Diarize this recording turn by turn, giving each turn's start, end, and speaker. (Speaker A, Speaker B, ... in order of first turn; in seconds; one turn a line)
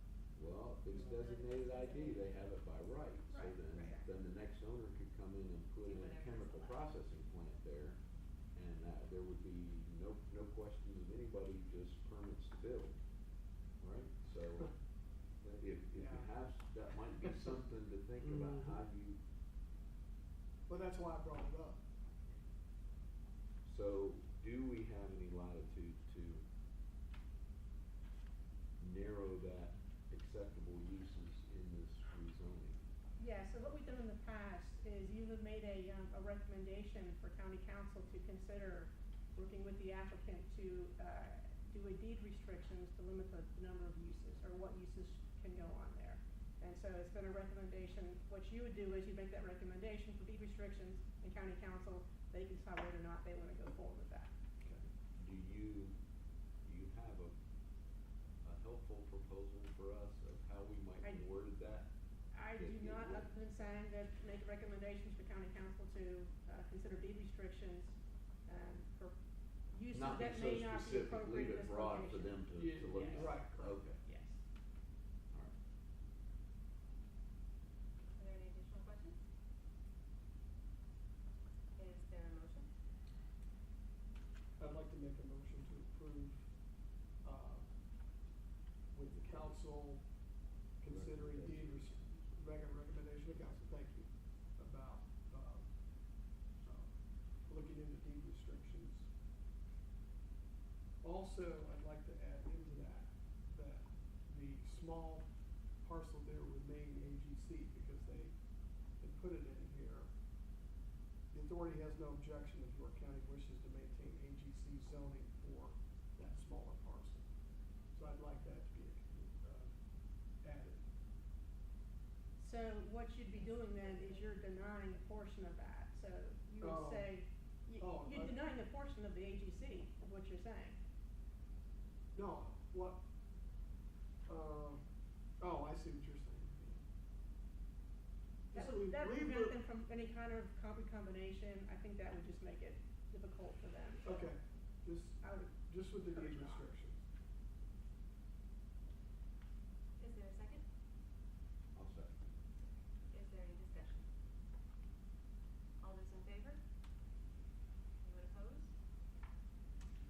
Speaker A: 0.3-8.0
Speaker B: 0.9-1.2
Speaker C: 1.1-2.5
Speaker D: 3.3-4.1
Speaker C: 5.8-6.9
Speaker A: 8.5-13.0
Speaker A: 13.8-14.7
Speaker A: 15.4-19.2
Speaker B: 15.9-16.3
Speaker B: 20.7-21.8
Speaker A: 23.6-26.4
Speaker A: 28.8-32.8
Speaker D: 33.2-54.3
Speaker B: 54.6-54.9
Speaker A: 55.1-56.0
Speaker A: 56.6-57.3
Speaker A: 58.4-61.9
Speaker D: 61.0-61.3
Speaker D: 62.3-69.2
Speaker A: 62.5-63.3
Speaker D: 69.7-72.4
Speaker A: 69.9-74.0
Speaker B: 72.5-74.0
Speaker D: 72.9-73.3
Speaker C: 78.1-79.2
Speaker C: 81.8-82.7
Speaker B: 84.6-86.4
Speaker B: 87.2-87.7
Speaker B: 88.9-90.0
Speaker A: 89.1-89.6
Speaker B: 90.8-95.7
Speaker A: 90.8-92.9
Speaker B: 96.6-96.9
Speaker B: 97.4-99.1
Speaker B: 101.0-105.3
Speaker B: 105.8-108.3
Speaker B: 109.0-110.1
Speaker B: 111.3-117.2
Speaker B: 117.9-119.7
Speaker B: 120.4-120.9
Speaker D: 122.4-130.8
Speaker C: 123.3-124.4
Speaker B: 126.6-127.2
Speaker B: 127.8-128.4
Speaker B: 132.1-133.0
Speaker B: 134.3-134.8
Speaker B: 135.4-136.8
Speaker B: 138.5-139.6
Speaker D: 138.5-144.3
Speaker B: 144.0-147.0
Speaker D: 145.2-146.7
Speaker C: 150.0-150.6
Speaker A: 151.7-152.1
Speaker C: 152.6-154.1
Speaker C: 155.8-156.6
Speaker C: 158.0-158.7